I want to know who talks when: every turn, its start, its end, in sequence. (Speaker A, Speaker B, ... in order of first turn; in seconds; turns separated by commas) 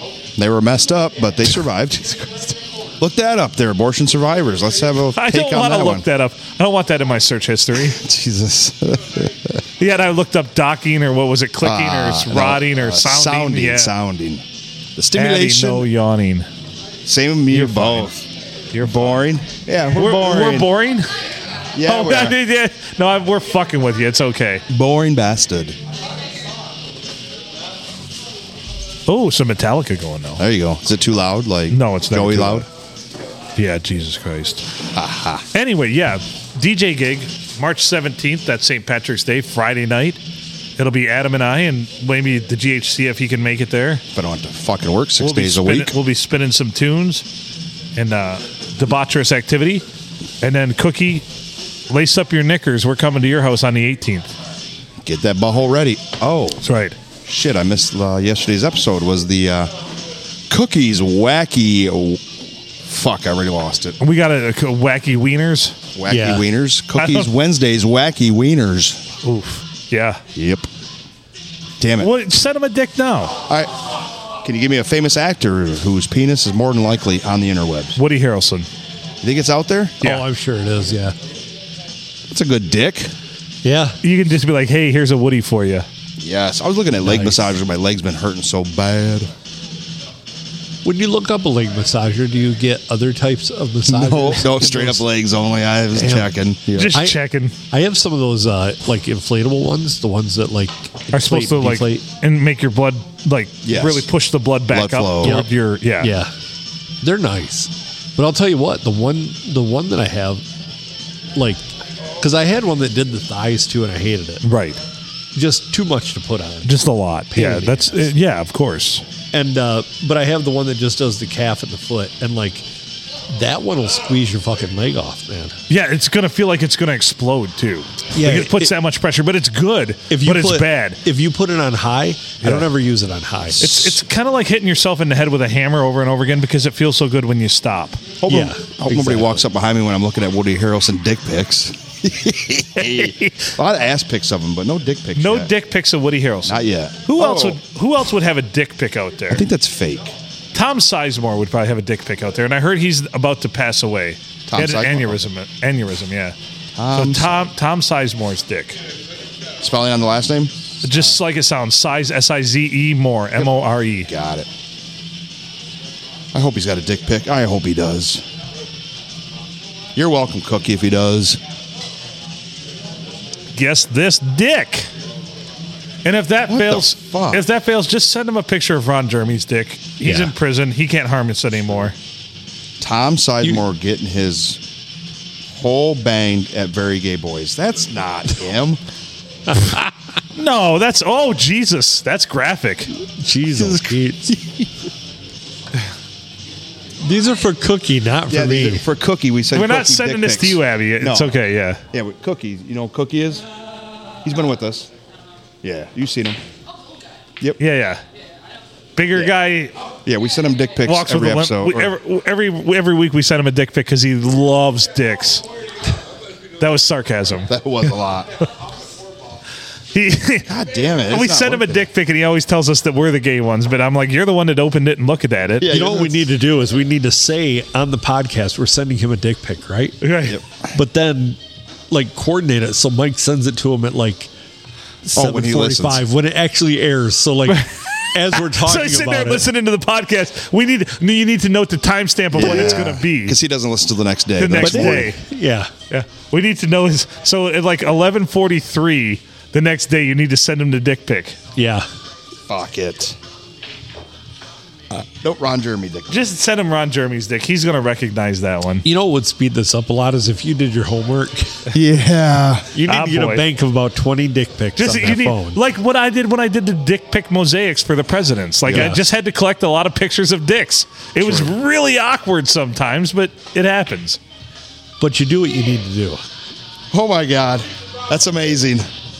Speaker A: 0.4-6.0, Speaker B: 5.1-8.0, Speaker A: 7.8-9.6, Speaker B: 9.8-13.9, Speaker A: 11.6-14.4, Speaker A: 14.9-15.9, Speaker B: 15.1-16.5, Speaker A: 17.0-18.3, Speaker B: 17.5-18.1, Speaker B: 18.7-19.3, Speaker A: 18.8-20.7, Speaker B: 19.9-21.1, Speaker A: 21.7-22.4, Speaker B: 21.8-24.6, Speaker A: 24.7-25.8, Speaker B: 29.1-30.4, Speaker A: 30.4-32.7, Speaker B: 31.7-32.7, Speaker B: 33.5-34.6, Speaker A: 34.9-35.5, Speaker B: 35.5-40.2, Speaker B: 40.8-44.0, Speaker A: 44.1-46.0, Speaker B: 45.2-47.2, Speaker B: 48.0-49.8, Speaker B: 50.4-51.2, Speaker B: 51.9-54.3, Speaker A: 55.0-56.6, Speaker B: 56.6-57.0, Speaker A: 57.2-59.7, Speaker A: 60.5-62.2, Speaker A: 62.8-64.0, Speaker B: 64.0-65.8, Speaker A: 65.9-69.0, Speaker C: 66.1-66.4, Speaker B: 67.0-67.3, Speaker B: 69.2-70.2, Speaker A: 70.3-70.7, Speaker A: 71.8-72.1, Speaker B: 72.0-73.4, Speaker A: 73.5-73.7, Speaker A: 74.4-78.0, Speaker B: 78.0-78.7, Speaker A: 79.2-80.0, Speaker C: 80.0-81.1, Speaker A: 82.3-83.1, Speaker C: 83.6-84.0, Speaker B: 84.0-85.9, Speaker A: 86.2-89.3, Speaker C: 87.0-87.4, Speaker C: 90.8-95.0, Speaker A: 93.8-97.0, Speaker C: 95.9-96.3, Speaker B: 96.7-97.5, Speaker C: 96.9-97.2, Speaker C: 97.7-102.0, Speaker B: 101.1-106.1, Speaker A: 103.6-104.1, Speaker A: 104.7-105.4, Speaker C: 105.2-106.3, Speaker C: 107.0-110.4, Speaker C: 111.3-114.4, Speaker B: 114.4-114.8, Speaker C: 115.3-118.1, Speaker B: 116.6-119.0, Speaker C: 119.3-122.6, Speaker C: 123.3-125.6, Speaker B: 125.7-131.0, Speaker C: 128.1-128.7, Speaker C: 130.1-133.9, Speaker B: 133.6-138.0, Speaker A: 138.2-145.5, Speaker C: 138.3-139.4, Speaker B: 142.8-143.5, Speaker B: 145.2-149.5, Speaker A: 146.4-147.6, Speaker A: 149.3-150.1, Speaker B: 150.5-156.3, Speaker A: 154.5-155.2, Speaker A: 156.8-157.5, Speaker B: 156.9-158.8, Speaker A: 159.6-161.2, Speaker B: 160.8-164.1, Speaker A: 164.1-164.5, Speaker A: 166.3-168.2, Speaker A: 169.9-171.4, Speaker B: 173.5-174.9, Speaker B: 176.0-181.9, Speaker A: 176.5-177.4, Speaker C: 180.0-180.3, Speaker A: 182.8-184.6, Speaker A: 185.5-188.8, Speaker C: 189.5-189.9, Speaker B: 190.3-192.9, Speaker C: 193.2-194.6, Speaker C: 197.0-198.9, Speaker A: 198.3-201.3, Speaker B: 199.5-201.8, Speaker A: 201.9-203.4, Speaker A: 204.2-204.9, Speaker A: 205.6-206.4, Speaker B: 207.6-208.0, Speaker B: 208.9-209.7, Speaker A: 210.1-211.9, Speaker B: 210.8-215.4, Speaker B: 216.6-217.5, Speaker A: 217.5-218.3, Speaker B: 219.9-220.5, Speaker A: 220.5-221.8, Speaker B: 221.1-225.7, Speaker A: 225.6-226.3, Speaker C: 225.6-230.0, Speaker B: 230.0-230.4, Speaker A: 230.2-230.7, Speaker C: 230.7-231.4, Speaker C: 231.9-234.3, Speaker C: 235.0-239.5, Speaker A: 235.1-236.0, Speaker B: 237.5-243.4, Speaker A: 242.3-245.1, Speaker C: 242.4-242.7, Speaker B: 244.4-245.2, Speaker C: 244.6-245.7, Speaker B: 245.9-251.4, Speaker C: 251.6-251.8, Speaker A: 252.5-253.2, Speaker A: 254.9-256.2, Speaker B: 256.1-258.8, Speaker C: 258.8-261.7, Speaker A: 261.7-262.7, Speaker C: 262.7-265.6, Speaker B: 262.8-263.4, Speaker B: 264.8-274.2, Speaker A: 268.6-268.9, Speaker C: 268.7-269.0, Speaker A: 271.2-271.5, Speaker C: 275.0-276.2, Speaker A: 276.9-278.9